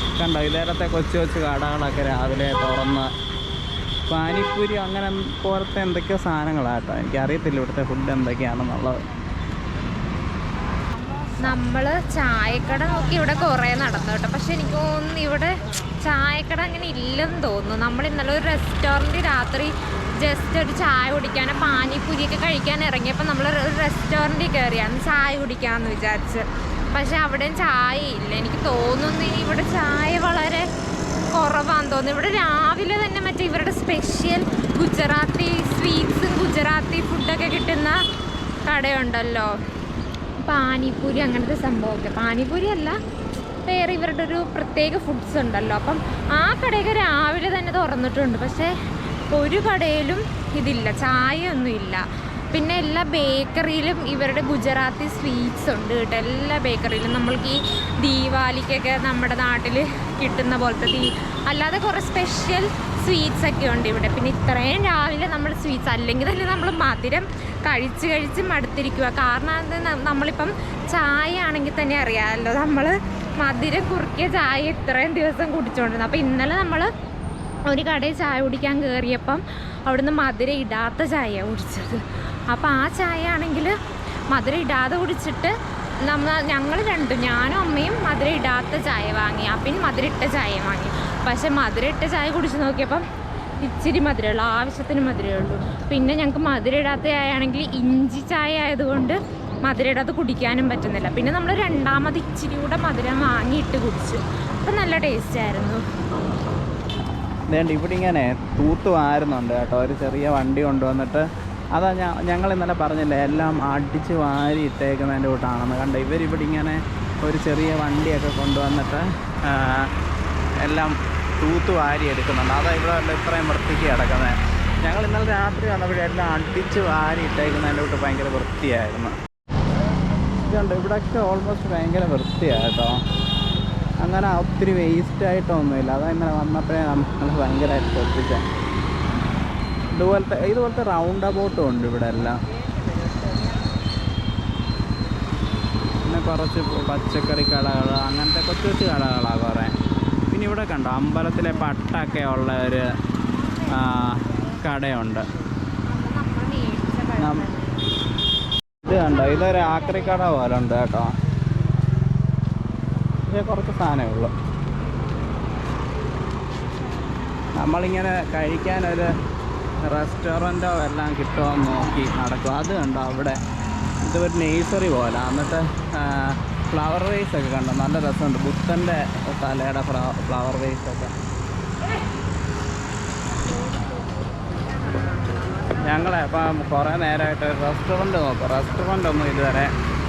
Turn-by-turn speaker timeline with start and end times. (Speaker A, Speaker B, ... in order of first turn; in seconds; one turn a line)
Speaker A: 0.2-3.1
Speaker A: 4.1-9.0
Speaker B: 11.4-15.5
Speaker B: 16.0-30.6
Speaker B: 31.3-38.0
Speaker B: 38.7-39.5
Speaker B: 40.5-43.0
Speaker B: 43.6-48.7
Speaker B: 49.3-76.9
Speaker B: 77.7-83.7
Speaker B: 84.3-85.5
Speaker B: 86.1-93.0
Speaker B: 93.6-105.8
Speaker A: 107.5-119.9
Speaker A: 120.6-129.1
Speaker A: 130.5-132.9
Speaker A: 134.0-138.4
Speaker A: 139.9-142.4
Speaker A: 146.1-149.7
Speaker A: 150.3-152.8
Speaker B: 151.4-152.4
Speaker B: 153.3-154.6
Speaker A: 153.7-155.2
Speaker B: 155.9-157.9
Speaker A: 157.2-157.4
Speaker A: 158.9-161.1
Speaker B: 158.9-160.4
Speaker A: 163.3-164.3
Speaker A: 167.6-169.1
Speaker A: 169.8-173.4
Speaker A: 174.0-181.1
Speaker A: 185.8-189.7